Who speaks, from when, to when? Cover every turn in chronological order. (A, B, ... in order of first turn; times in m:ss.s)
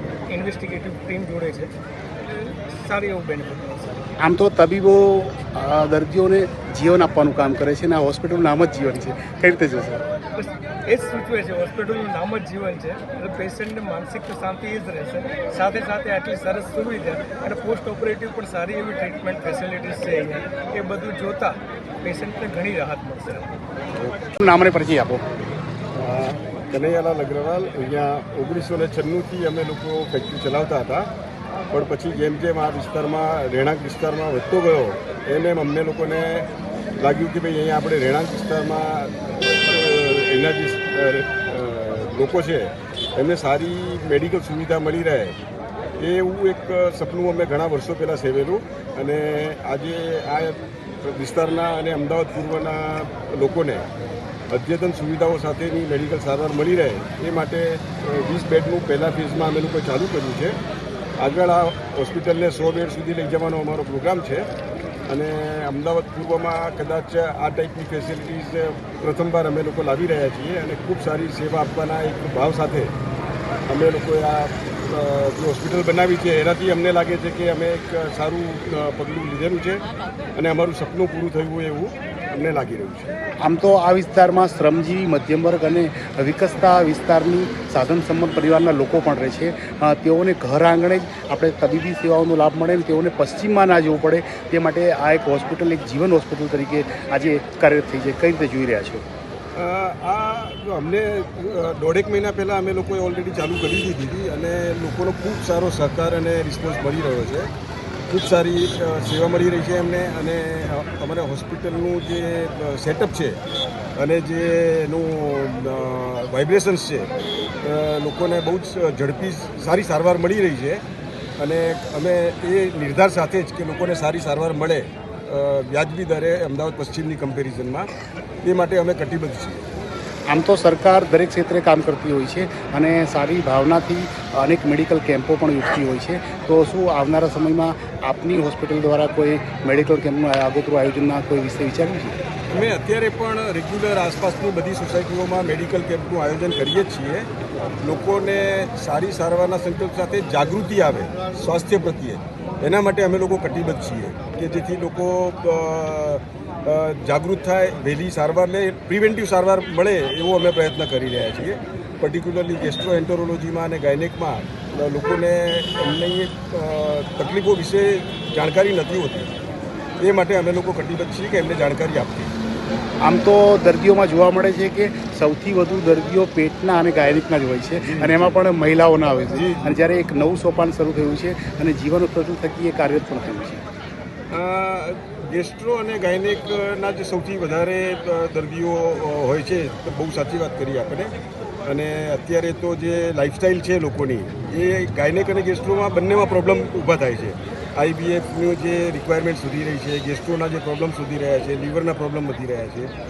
0:00.3-0:01.7 A
0:02.2-0:04.0 A
0:04.2-0:10.0 B
0:10.3-0:23.5 A
0:24.4-0:25.2 B
0:25.9-0:31.1 C
0:31.7-0:36.5 C
0:37.0-0:45.4 C
0:46.0-0:53.8 C
0:54.5-1:00.6 C
1:01.2-1:04.5 C
1:05.1-1:12.9 C
1:13.7-1:19.8 C
1:20.3-1:23.2 C
1:23.4-1:39.0 B
1:39.6-1:47.5 C
1:48.1-1:53.4 C
1:54.0-1:57.1 C
1:57.6-2:00.8 C
2:01.4-2:07.9 C
2:08.4-2:09.6 C
2:10.3-2:22.2 B
2:22.5-2:27.3 C
2:27.8-2:49.3 C
2:50.0-2:52.3 C
2:53.0-3:03.6 B
2:57.9-2:58.4 C
2:59.4-2:59.7 C
3:04.3-3:11.1 C
3:11.6-3:22.9 C